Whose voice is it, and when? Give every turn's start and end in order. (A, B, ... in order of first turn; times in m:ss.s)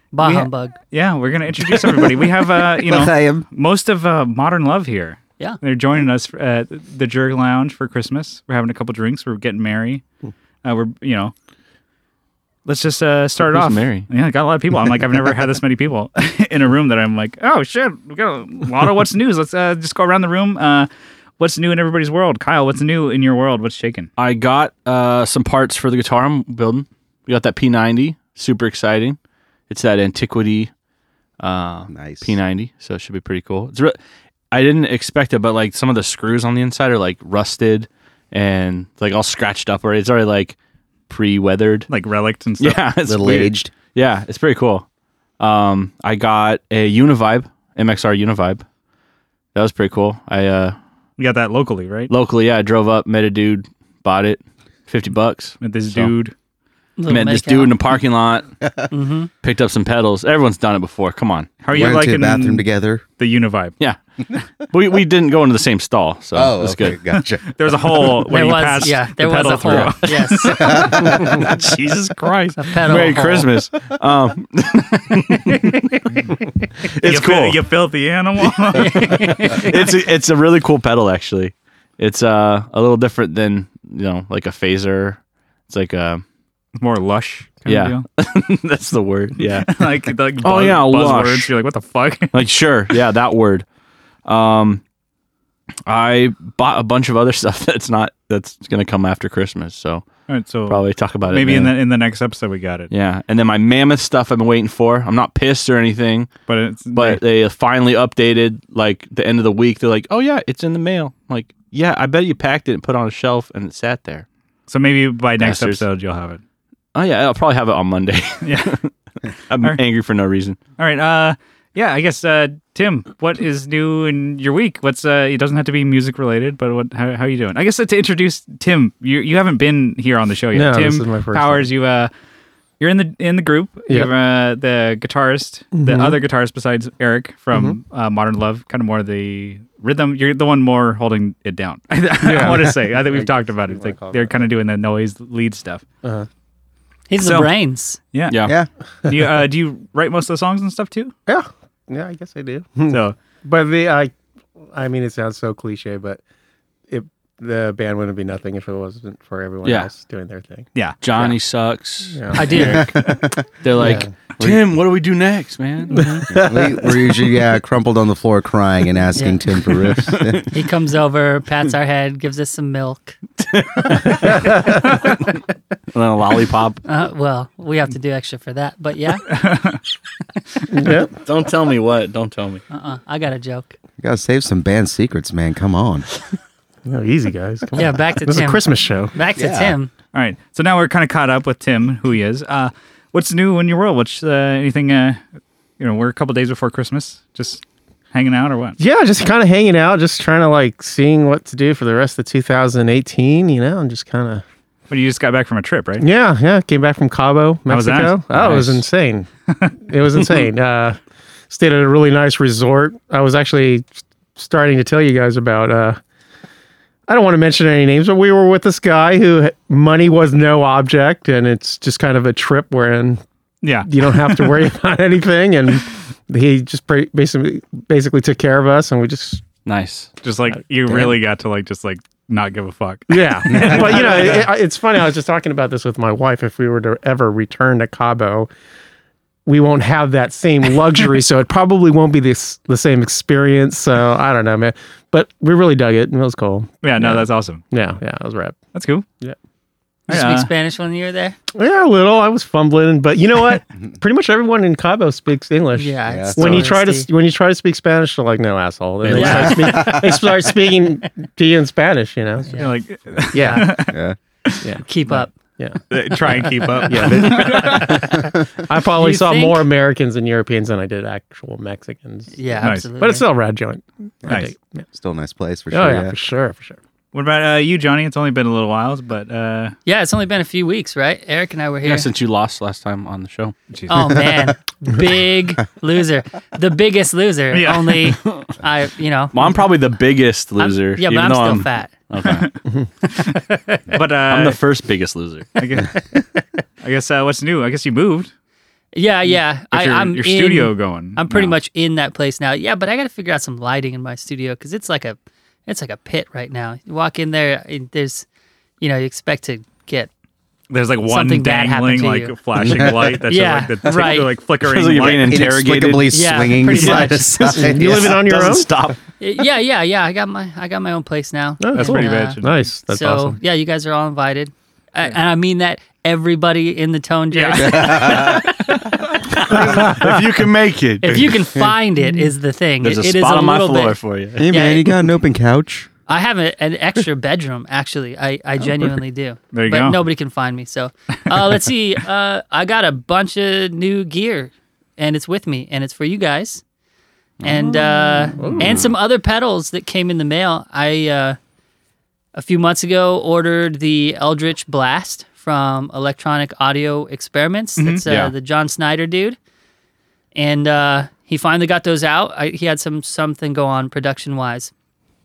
0:00.1-0:00.8 A
0:00.2-0:10.0 B
0:02.8-0:03.4 C
0:10.6-0:11.3 B
0:12.6-0:20.9 B
0:13.4-0:14.1 D
0:21.4-0:24.1 B
0:24.2-0:29.2 D
0:29.7-0:30.7 D
0:31.4-0:34.0 D
0:31.9-0:32.3 C
0:34.5-0:40.6 D
0:41.1-0:41.9 D
0:41.9-0:42.8 B
0:42.6-0:44.8 D
0:43.0-0:43.7 C
0:45.4-0:48.6 D
0:49.5-0:50.8 D
0:51.2-0:52.1 B
0:52.1-0:56.1 D
0:55.6-0:56.3 B
0:57.0-0:57.8 A
0:57.1-0:58.5 D
0:58.9-0:59.3 A
0:59.4-1:01.5 D
1:01.6-1:02.6 B
1:01.7-1:03.0 C
1:03.2-1:03.7 B
1:04.7-1:07.0 D
1:06.3-1:07.4 C
1:07.1-1:12.8 B
1:08.3-1:10.9 A
1:09.7-1:12.2 D
1:10.7-1:11.4 C
1:12.6-1:13.5 A
1:12.8-1:15.8 D
1:15.5-1:16.0 A
1:16.9-1:17.6 D
1:17.0-1:19.1 B
1:18.7-1:26.2 D
1:18.7-1:19.9 A
1:26.8-1:28.0 B
1:27.7-1:29.8 D
1:29.4-1:32.4 B
1:30.4-1:31.5 D
1:32.3-1:33.6 D
1:34.2-1:34.8 D
1:35.8-1:40.0 D
1:40.3-1:42.9 B
1:40.7-1:41.7 D
1:42.9-1:46.3 D
1:46.5-1:47.2 B
1:46.9-1:54.2 D
1:54.7-1:56.4 B
1:55.4-1:55.8 D
1:56.9-1:58.9 D
1:58.4-1:58.7 B
1:59.5-2:00.6 D
2:00.8-2:12.1 B
2:10.5-2:11.7 E
2:12.8-2:25.8 B
2:15.8-2:16.2 E
2:22.2-2:24.4 E
2:27.1-2:28.0 A
2:27.2-2:27.5 B
2:28.1-2:28.5 B
2:28.3-2:28.6 D
2:29.0-2:31.1 B
2:31.3-2:36.2 E
2:32.9-2:33.2 B
2:36.9-2:40.7 E
2:39.6-2:39.9 D
2:41.0-2:42.2 D
2:42.1-2:43.2 E
2:42.4-2:42.9 A
2:42.6-2:43.3 C
2:43.6-2:46.6 D
2:43.8-2:44.1 E
2:45.9-2:46.2 E
2:46.3-2:50.4 C
2:49.2-2:49.4 A
2:50.1-2:50.5 D
2:50.5-2:53.2 A
2:53.4-2:55.3 D
2:55.9-2:56.8 D
2:56.8-2:59.3 A
2:59.3-2:59.8 B
3:00.7-3:01.1 E
3:01.2-3:02.6 D
3:02.7-3:03.7 A
3:04.0-3:06.0 C
3:06.8-3:09.1 E
3:07.8-3:09.9 A
3:09.4-3:09.7 C
3:10.1-3:15.2 B
3:15.8-3:17.6 B
3:18.1-3:18.8 B
3:18.8-3:24.4 E
3:24.9-3:26.0 B
3:26.0-3:29.3 E
3:27.7-3:28.8 B
3:29.8-3:31.0 E
3:31.5-3:36.0 E
3:37.1-3:43.2 E
3:43.6-3:44.5 B
3:43.8-3:49.4 E
3:49.6-3:50.1 D
3:50.2-3:54.5 B
3:50.9-3:51.1 E
3:53.1-3:58.5 E
3:59.4-4:08.6 E
4:06.8-4:07.6 B
4:08.7-4:09.0 B
4:10.1-4:11.4 A
4:10.1-4:10.5 B
4:11.5-4:22.6 E
4:15.8-4:17.1 A
4:16.1-4:16.7 C
4:19.1-4:20.2 C
4:19.1-4:20.1 A
4:22.5-4:22.7 A
4:22.6-4:24.6 B
4:23.3-4:23.8 E
4:23.9-4:24.2 C
4:24.8-4:25.3 A
4:25.6-4:34.8 E
4:25.9-4:28.1 B
4:27.5-4:28.0 A
4:29.0-4:29.6 A
4:32.3-4:33.2 A
4:32.6-4:32.9 B
4:34.2-4:34.5 B
4:34.9-4:36.1 C
4:35.7-4:36.8 E
4:37.1-4:39.7 B
4:39.8-4:42.1 A
4:41.8-4:43.5 D
4:43.7-4:44.1 B
4:43.9-4:49.4 A
4:47.5-4:48.1 B
4:49.3-4:52.5 D
4:50.6-4:51.9 A
4:52.2-4:52.5 B
4:53.1-4:53.8 A
4:53.9-4:54.6 B
4:54.3-4:55.6 D
4:55.6-4:55.9 B
4:56.8-4:58.3 B
4:58.9-5:08.2 A
4:59.7-5:01.5 B
5:08.8-5:10.1 A
5:10.7-5:15.4 B
5:11.1-5:12.3 A
5:12.6-5:13.1 C
5:13.3-5:14.3 A
5:14.6-5:16.1 D
5:15.2-5:18.3 C
5:16.1-5:17.3 A
5:16.7-5:17.1 B
5:17.5-5:18.7 E
5:18.0-5:19.0 D
5:19.2-5:29.6 A
5:21.6-5:23.4 E
5:21.7-5:22.5 B
5:27.3-5:28.4 B
5:27.6-5:28.5 C
5:29.4-5:31.4 D
5:31.0-5:34.0 A
5:32.8-5:34.5 D
5:34.4-5:35.9 C
5:34.5-5:34.9 A
5:36.1-5:46.6 A
5:39.5-5:40.0 B
5:47.4-5:47.7 D
5:47.4-5:51.4 A
5:48.4-5:48.8 E
5:52.3-5:59.4 A
5:57.8-5:58.0 B
5:58.0-5:58.3 D
6:00.3-6:04.7 A